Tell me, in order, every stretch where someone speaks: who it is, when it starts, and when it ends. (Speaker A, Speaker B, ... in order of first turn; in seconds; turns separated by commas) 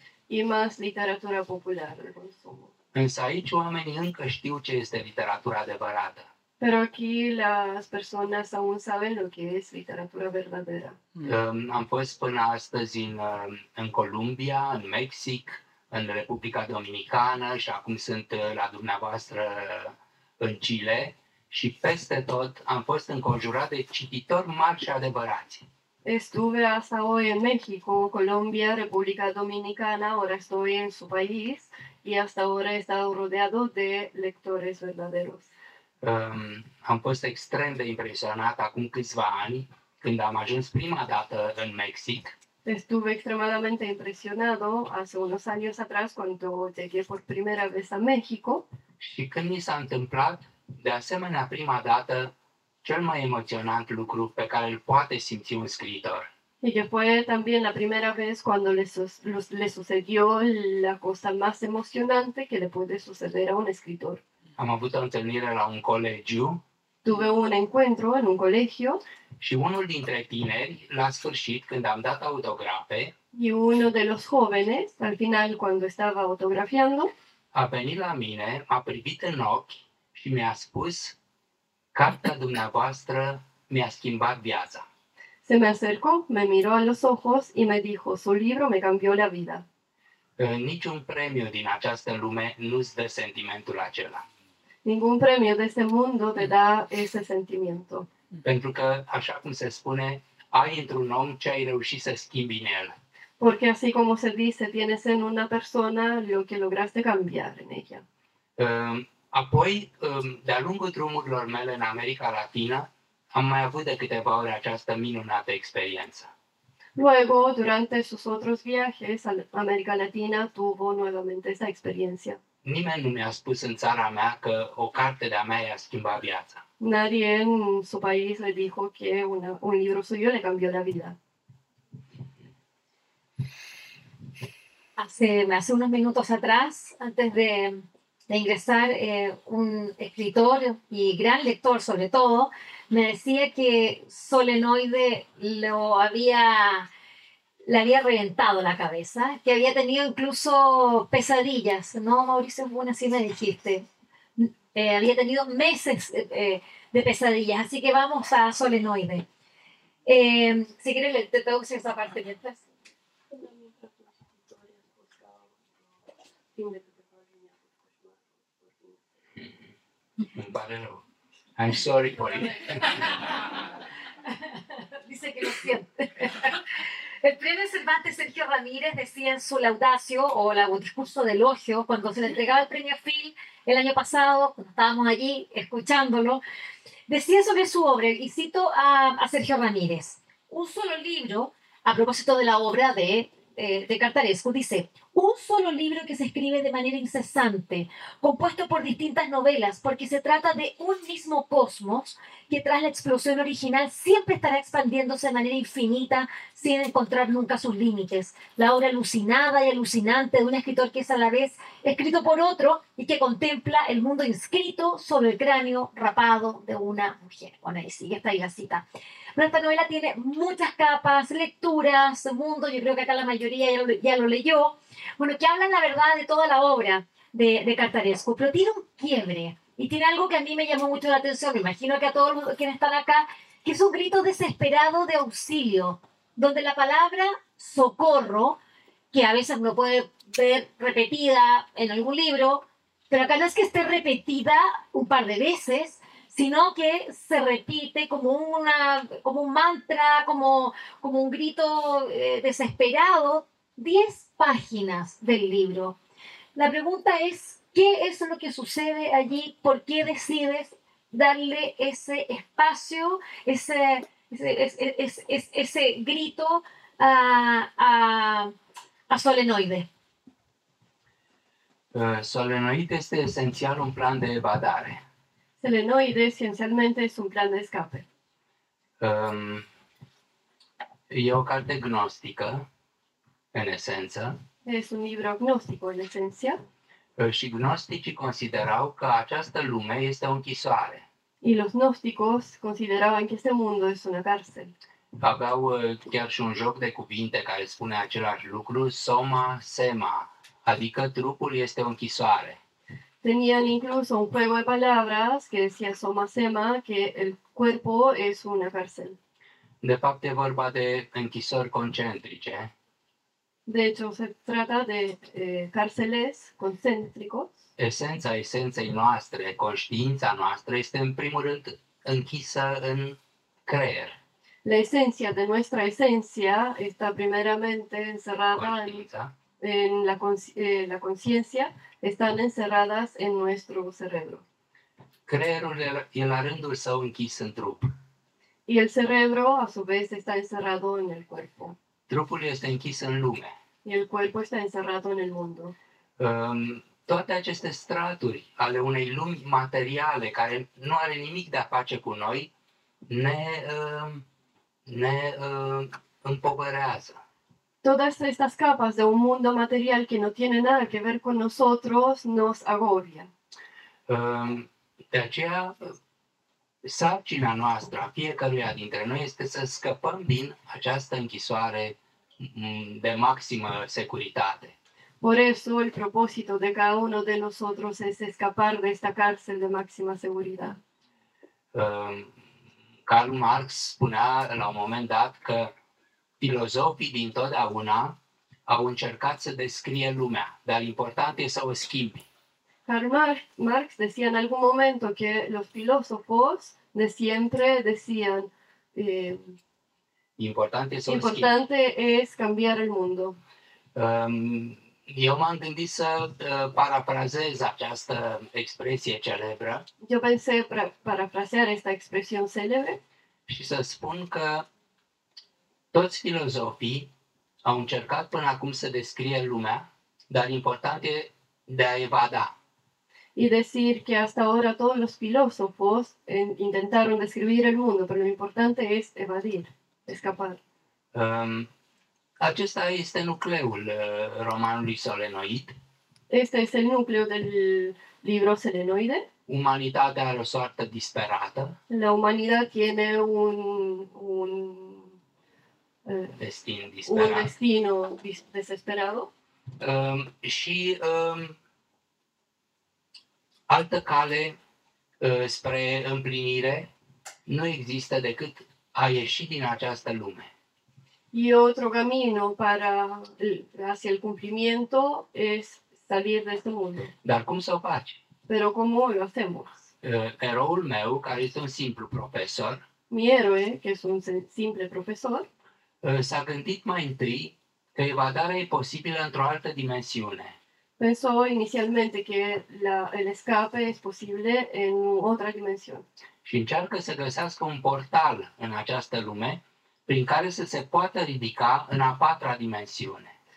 Speaker A: 0.3-2.7, Speaker B: 2.9-6.3, Speaker A: 6.6-11.0, Speaker B: 11.2-25.7, Speaker A: 26.1-35.5, Speaker B: 36.0-42.4, Speaker A: 42.6-48.7, Speaker B: 49.0-56.3, Speaker A: 56.6-64.2, Speaker B: 64.6-66.6, Speaker A: 67.0-69.0, Speaker B: 69.4-73.1, Speaker A: 73.3-77.1, Speaker B: 77.5-81.2, Speaker B: 81.9-84.9, Speaker A: 85.5-89.7, Speaker B: 90.4-94.2, Speaker A: 94.8-98.1, Speaker B: 98.4-103.0, Speaker A: 103.4-108.0, Speaker B: 108.6-116.3, Speaker A: 117.0-122.4, Speaker B: 122.6-126.6, Speaker A: 126.8-131.2, Speaker C: 135.0-146.9, Speaker C: 147.7-153.9, Speaker C: 154.4-159.2, Speaker C: 160.1-162.6, Speaker A: 163.3-165.6, Speaker A: 166.6-169.0, Speaker B: 170.3-171.0, Speaker B: 171.6-173.0, Speaker C: 174.3-176.6, Speaker C: 177.2-186.4, Speaker C: 187.1-238.6, Speaker C: 239.1-256.0, Speaker C: 256.6-268.5, Speaker C: 269.1-269.9, Speaker B: 271.9-275.0, Speaker A: 275.6-278.1, Speaker B: 279.0-279.7, Speaker B: 281.1-282.7, Speaker B: 283.5-284.4, Speaker A: 284.6-286.6, Speaker B: 287.2-291.1, Speaker A: 291.4-294.7, Speaker B: 295.2-302.6, Speaker A: 303.2-309.2, Speaker B: 309.8-312.7, Speaker A: 313.7-317.6, Speaker B: 317.8-324.2, Speaker A: 324.6-329.1, Speaker B: 328.6-329.3, Speaker A: 329.6-334.4, Speaker B: 335.3-337.9, Speaker A: 338.7-341.8, Speaker B: 342.1-343.6, Speaker A: 343.9-345.8, Speaker B: 346.2-352.5, Speaker B: 353.1-354.2, Speaker B: 354.9-357.2, Speaker A: 357.8-363.3, Speaker B: 364.1-365.9, Speaker B: 366.8-374.8, Speaker A: 375.2-380.8, Speaker B: 381.7-382.3, Speaker B: 383.1-385.7, Speaker B: 386.4-392.3, Speaker A: 392.9-399.6, Speaker B: 400.4-401.5, Speaker A: 401.1-403.4, Speaker B: 403.9-409.9, Speaker A: 410.0-413.0, Speaker B: 413.5-414.7, Speaker B: 415.9-417.1, Speaker B: 417.6-422.6, Speaker A: 423.4-430.6, Speaker B: 431.1-431.7, Speaker B: 432.4-435.7, Speaker A: 436.3-439.3, Speaker B: 439.5-441.8, Speaker A: 441.9-445.1, Speaker A: 446.1-446.4, Speaker B: 446.4-447.5, Speaker A: 447.1-449.3, Speaker B: 449.8-451.6, Speaker B: 453.7-454.6, Speaker B: 455.2-456.9, Speaker B: 457.5-460.5, Speaker A: 461.3-467.1, Speaker B: 467.2-468.2, Speaker A: 468.5-469.9, Speaker B: 470.0-472.8, Speaker A: 473.1-475.5, Speaker B: 476.0-480.6, Speaker A: 481.0-486.1, Speaker B: 486.4-493.4